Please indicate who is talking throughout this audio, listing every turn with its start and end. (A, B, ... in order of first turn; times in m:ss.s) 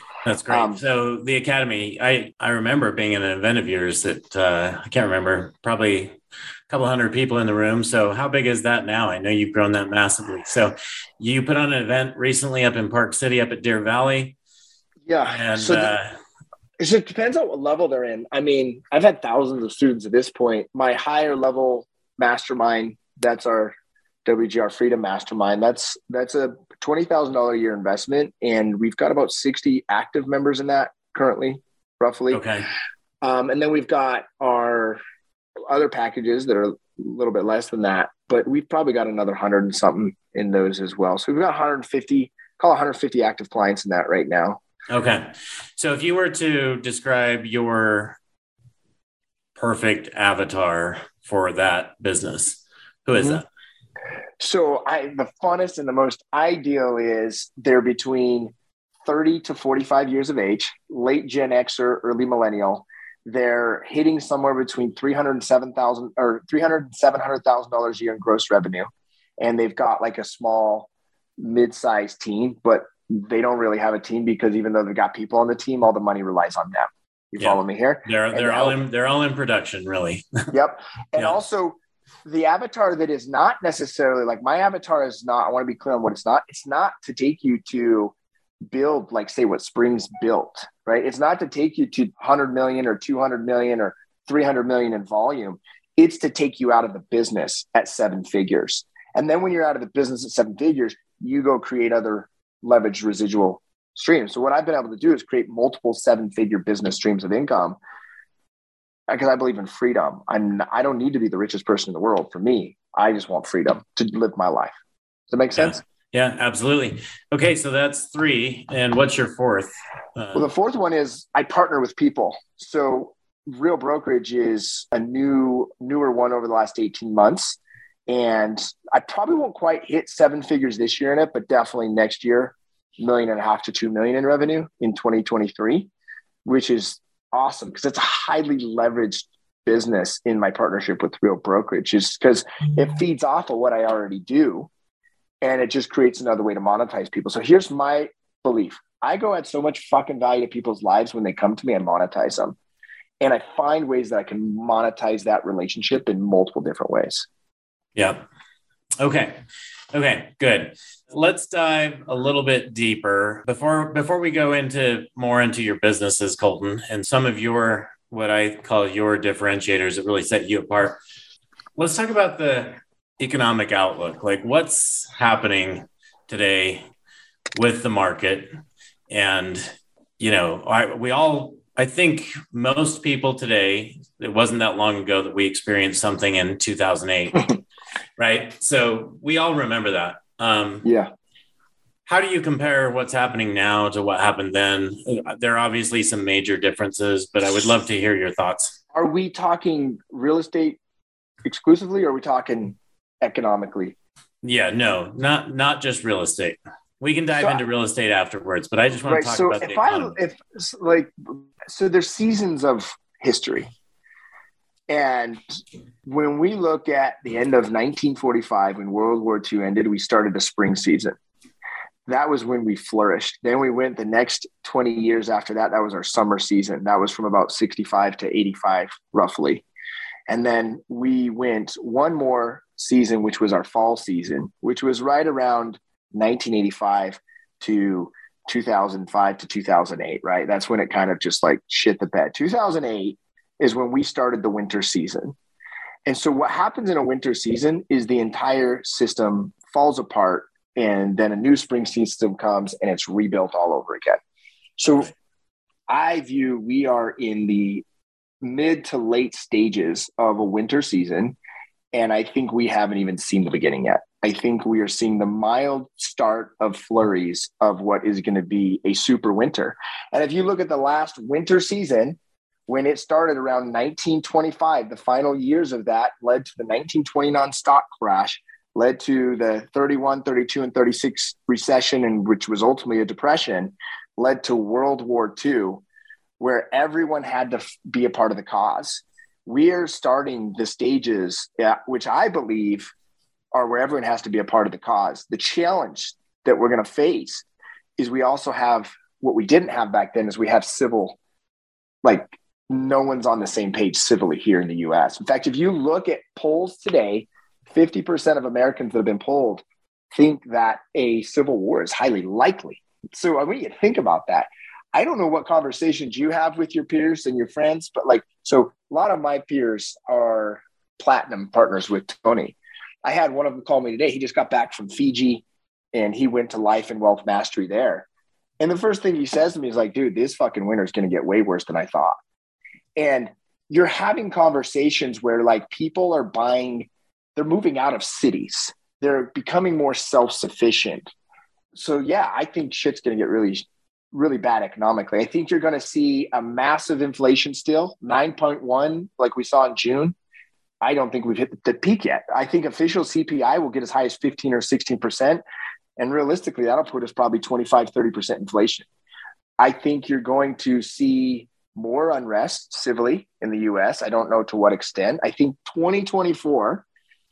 0:00.2-0:06.2 A
0:00.5-0:00.8 B
0:06.7-0:14.4 A
0:15.0-0:15.9 B
0:15.2-0:16.1 A
0:16.8-0:23.7 B
0:24.2-0:32.4 B
0:32.3-0:32.7 A
0:33.2-0:35.0 B
0:35.7-0:44.6 B
0:44.9-0:48.2 A
0:49.6-0:53.4 A
0:53.2-0:53.4 B
0:54.4-0:58.5 B
0:59.0-1:08.9 B
1:09.4-1:18.8 B
1:17.4-1:20.5 A
1:20.5-1:28.1 B
1:28.7-1:47.8 B
1:49.1-1:54.8 B
1:55.3-1:55.8 B
1:55.6-2:00.5 A
2:00.3-2:15.9 B
2:16.4-2:24.7 B
2:25.4-2:32.6 B
2:33.2-2:37.3 B
2:38.0-2:38.2 A
2:39.0-2:39.4 A
2:39.9-2:51.0 A
2:51.8-2:56.9 A
2:57.6-2:58.5 A
2:59.1-3:07.6 A
3:08.2-3:10.8 A
3:10.8-3:11.1 B
3:12.1-3:18.8 A
3:18.9-3:20.8 B
3:21.4-3:24.0 B
3:24.4-3:30.2 A
3:29.1-3:33.7 B
3:34.9-3:35.4 B
3:36.1-3:41.2 B
3:42.1-3:49.6 B
3:50.3-4:05.4 B
4:06.0-4:14.2 B
4:14.8-4:15.1 B
4:15.9-4:17.8 B
4:18.4-4:21.4 B
4:21.9-4:45.8 B
4:46.4-4:52.9 B
4:53.5-4:57.4 B
4:58.0-5:01.2 B
5:02.0-5:28.1 B
5:28.6-5:32.2 B
5:33.0-5:41.1 B
5:41.7-5:50.2 B
5:50.8-5:55.4 B
5:56.0-5:58.9 B
5:59.6-6:06.8 B